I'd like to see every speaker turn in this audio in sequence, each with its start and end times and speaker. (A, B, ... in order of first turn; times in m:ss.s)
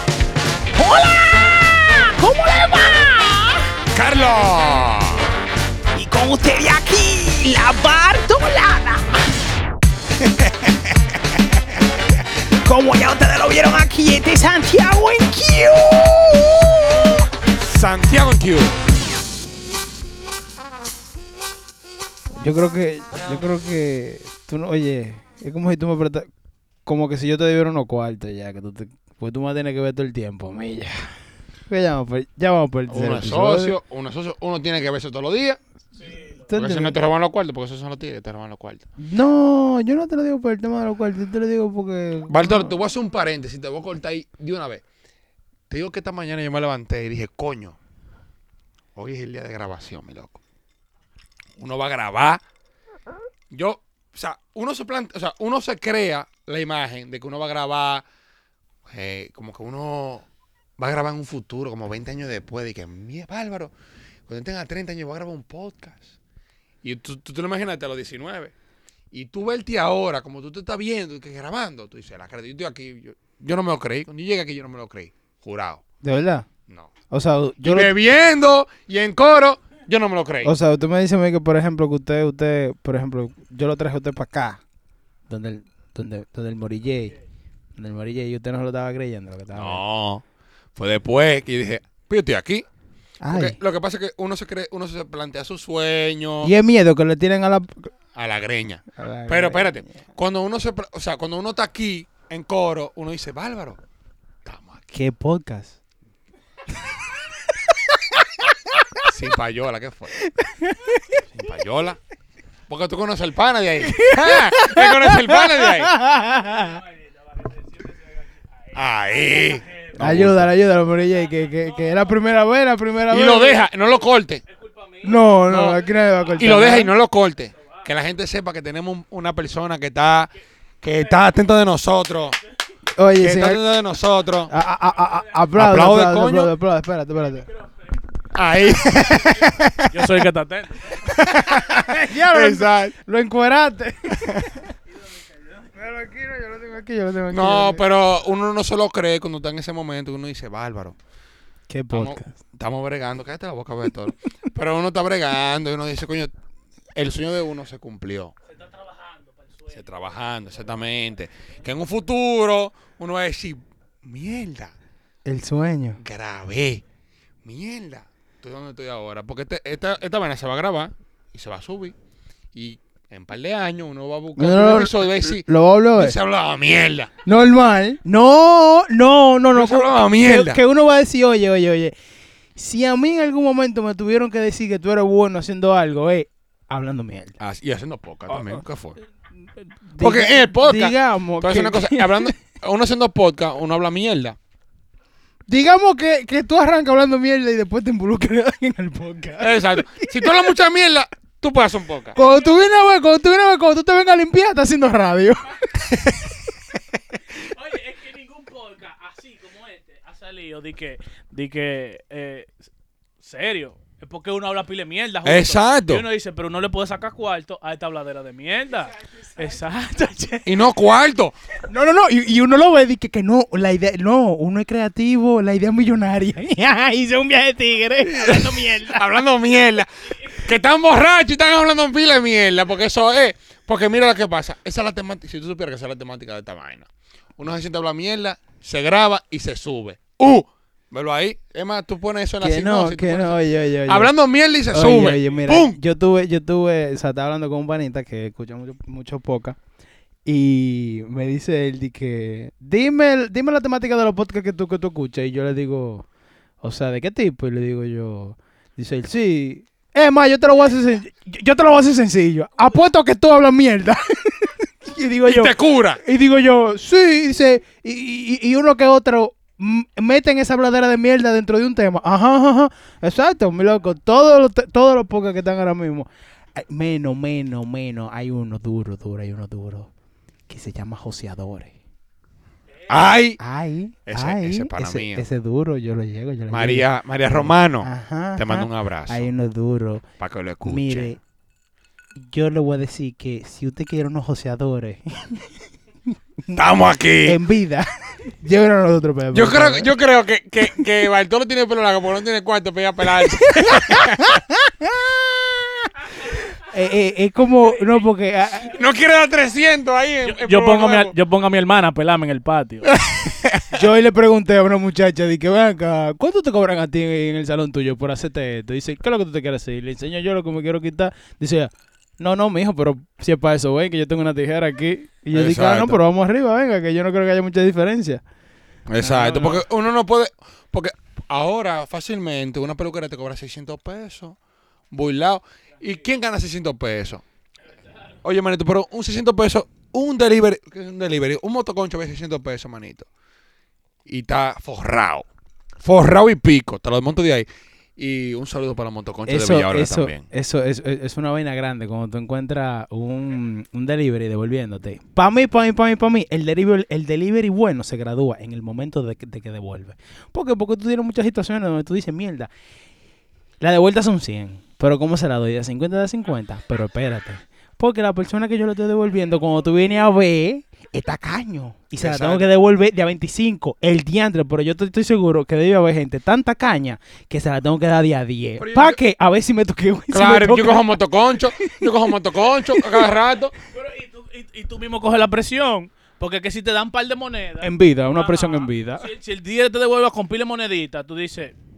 0:00.7-0:03.6 A
0:03.9-0:05.3 B
0:06.0-0:09.2 A
0:10.2-0:11.0 B
0:12.5-0:17.2 A
0:17.7-0:18.8 B
0:22.4-0:26.3 A
0:26.9-0:31.1 A
0:31.7-0:33.8 A
0:32.9-0:35.6 B
0:36.4-0:37.0 A
0:36.5-0:38.8 B
0:39.0-0:42.7 A
0:42.3-0:44.8 B
0:45.7-0:47.8 B
0:49.0-0:50.4 B
0:51.6-0:52.4 B
0:53.5-0:58.0 B
0:58.9-1:00.3 B
1:00.8-1:03.7 B
1:04.3-1:06.1 B
1:06.8-1:08.5 B
1:09.1-1:15.8 B
1:16.0-1:16.5 A
1:17.1-1:17.9 A
1:17.6-1:20.5 B
1:20.4-1:24.6 A
1:25.3-1:27.2 A
1:27.8-1:29.8 A
1:29.5-1:30.2 B
1:30.8-1:32.7 B
1:33.2-1:33.6 A
1:33.3-1:36.5 B
1:36.4-1:37.9 A
1:38.2-1:43.8 B
1:38.9-1:40.0 A
1:44.4-1:44.8 B
1:44.9-1:45.8 A
1:47.9-1:49.0 A
1:49.0-1:50.1 B
1:50.2-1:51.2 A
1:51.3-1:52.0 B
1:52.7-1:56.0 B
1:54.0-1:56.8 A
1:58.7-2:00.5 B
2:00.0-2:03.6 A
2:03.1-2:04.4 B
2:04.6-2:05.2 C
2:05.0-2:06.9 A
2:05.5-2:05.8 B
2:06.4-2:10.3 B
2:10.8-2:12.4 B
2:13.0-2:13.6 A
2:13.2-2:14.5 B
2:14.5-2:17.5 A
2:15.5-2:16.5 B
2:18.3-2:20.1 B
2:19.9-2:21.0 C
2:21.0-2:23.0 B
2:21.4-2:24.7 A
2:24.1-2:24.4 B
2:25.7-2:27.8 A
2:27.3-2:31.0 B
2:31.7-2:32.3 A
2:31.9-2:36.3 B
2:36.9-2:38.3 B
2:38.7-2:39.6 C
2:39.7-2:44.7 B
2:45.3-2:46.0 A
2:46.0-2:46.8 B
2:47.4-2:52.0 B
2:52.5-2:55.4 B
2:54.4-2:56.2 A
2:56.0-2:57.1 B
2:57.3-3:01.9 A
2:59.5-3:00.6 B
3:02.6-3:07.4 A
3:07.4-3:09.0 B
3:09.9-3:12.3 A
3:10.0-3:14.4 B
3:15.5-3:20.5 A
3:19.4-3:22.2 B
3:22.2-3:26.4 A
3:27.4-3:32.5 C
3:33.2-3:40.6 C
3:35.2-3:36.0 B
3:40.5-3:41.4 B
3:41.7-3:49.0 A
3:48.0-4:05.8 B
4:02.4-4:04.1 A
4:04.7-4:09.6 A
4:10.3-4:16.0 A
4:16.6-4:39.9 A
4:25.2-4:26.0 B
4:40.5-4:41.8 A
4:42.9-4:43.4 B
4:43.4-4:50.0 A
4:44.1-4:45.2 B
4:46.5-4:49.3 B
4:50.2-4:51.1 B
4:50.6-4:51.2 A
4:52.2-4:55.5 A
4:56.5-4:57.4 B
4:57.2-4:59.9 A
4:59.3-5:04.4 B
5:03.3-5:08.8 A
5:08.7-5:11.1 B
5:10.2-5:12.9 C
5:12.9-5:13.8 B
5:13.7-5:28.2 A
5:25.3-5:26.0 B
5:28.9-5:34.4 B
5:29.0-5:29.6 A
5:34.9-5:37.2 B
5:38.2-5:43.1 B
5:44.1-5:45.3 B
5:45.8-5:50.2 B
5:49.3-6:02.5 A
6:03.6-6:21.0 A
6:12.0-6:12.4 B
6:18.6-6:19.0 B
6:20.1-6:23.5 B
6:21.5-6:21.9 A
6:22.6-6:23.0 A
6:23.7-6:31.5 C
6:27.6-6:29.1 A